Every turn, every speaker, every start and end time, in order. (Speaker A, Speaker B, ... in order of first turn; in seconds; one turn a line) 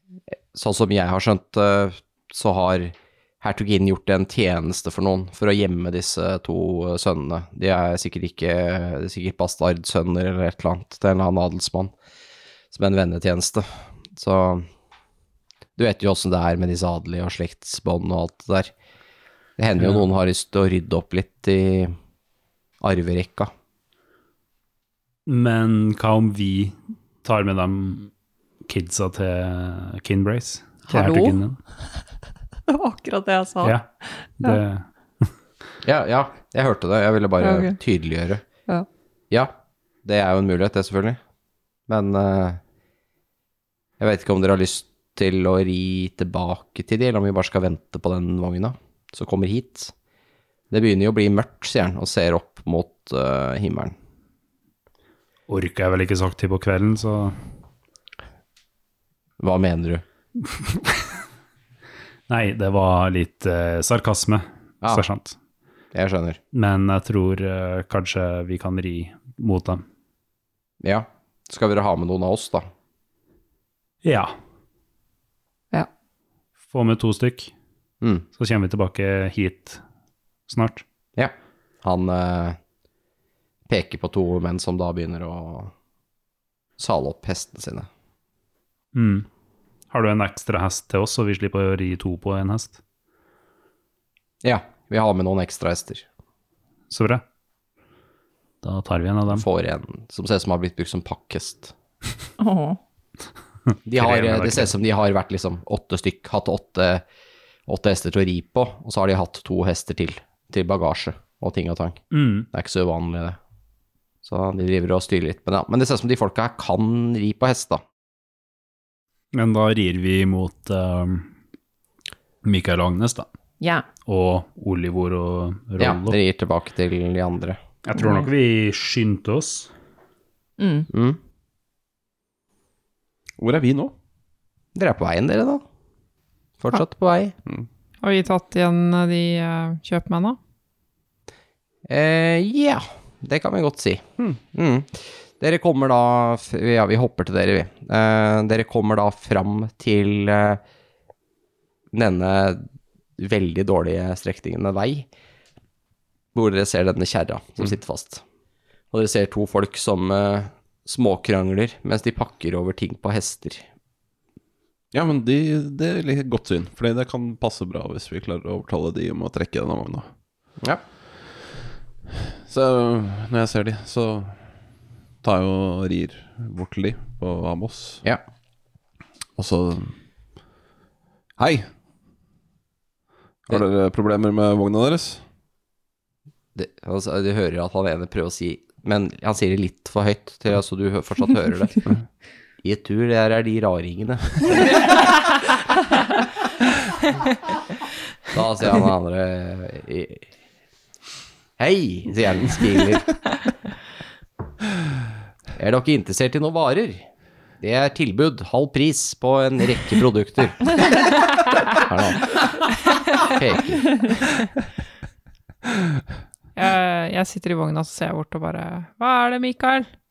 Speaker A: 0.5-11.9
Speaker A: 12.7-14.7
Speaker A: 15.8-18.7
Speaker A: 19.6-21.9
Speaker A: 22.8-23.5
Speaker B: 25.3-28.1
Speaker B: 28.7-31.6
Speaker C: 30.9-31.4
Speaker C: 32.7-34.6
Speaker B: 34.4-34.9
Speaker A: 35.8-38.5
Speaker C: 37.4-37.8
Speaker A: 40.0-41.2
Speaker A: 41.9-42.6
Speaker A: 44.0-49.9
Speaker A: 50.7-53.9
Speaker B: 55.5-57.4
Speaker A: 59.4-60.0
Speaker B: 62.3-65.4
Speaker A: 65.9-66.4
Speaker B: 66.5-69.8
Speaker A: 70.8-72.7
Speaker B: 74.0-74.3
Speaker B: 76.7-77.5
Speaker A: 78.0-78.3
Speaker B: 78.4-79.8
Speaker B: 80.5-80.8
Speaker A: 81.2-82.6
Speaker A: 83.7-85.7
Speaker A: 86.8-87.9
Speaker B: 88.9-89.3
Speaker B: 89.9-92.8
Speaker A: 94.4-96.0
Speaker B: 96.9-97.2
Speaker B: 98.6-99.5
Speaker A: 99.3-101.7
Speaker C: 102.4-102.8
Speaker A: 103.9-107.0
Speaker B: 104.0-104.7
Speaker A: 107.7-113.4
Speaker B: 112.1-112.5
Speaker A: 114.2-117.8
Speaker B: 119.3-121.3
Speaker B: 122.4-123.3
Speaker C: 123.6-123.8
Speaker B: 124.0-126.2
Speaker A: 125.8-127.6
Speaker B: 127.8-129.7
Speaker C: 128.0-128.3
Speaker C: 130.6-130.9
Speaker A: 130.9-131.2
Speaker D: 133.4-133.9
Speaker A: 134.8-135.6
Speaker A: 136.6-137.3
Speaker E: 138.0-140.4
Speaker A: 141.9-150.6
Speaker A: 151.9-152.7
Speaker A: 153.2-155.1
Speaker A: 156.3-158.2
Speaker A: 158.9-163.7
Speaker D: 164.9-170.1
Speaker D: 172.4-174.5
Speaker D: 175.2-178.0
Speaker D: 179.4-179.9
Speaker D: 181.4-181.7
Speaker D: 183.5-185.2
Speaker A: 186.6-191.9
Speaker A: 192.6-194.5
Speaker A: 198.3-200.2
Speaker A: 201.6-203.1
Speaker A: 205.6-207.1
Speaker A: 207.6-210.9
Speaker A: 211.7-212.4
Speaker A: 213.2-214.0
Speaker E: 216.6-219.9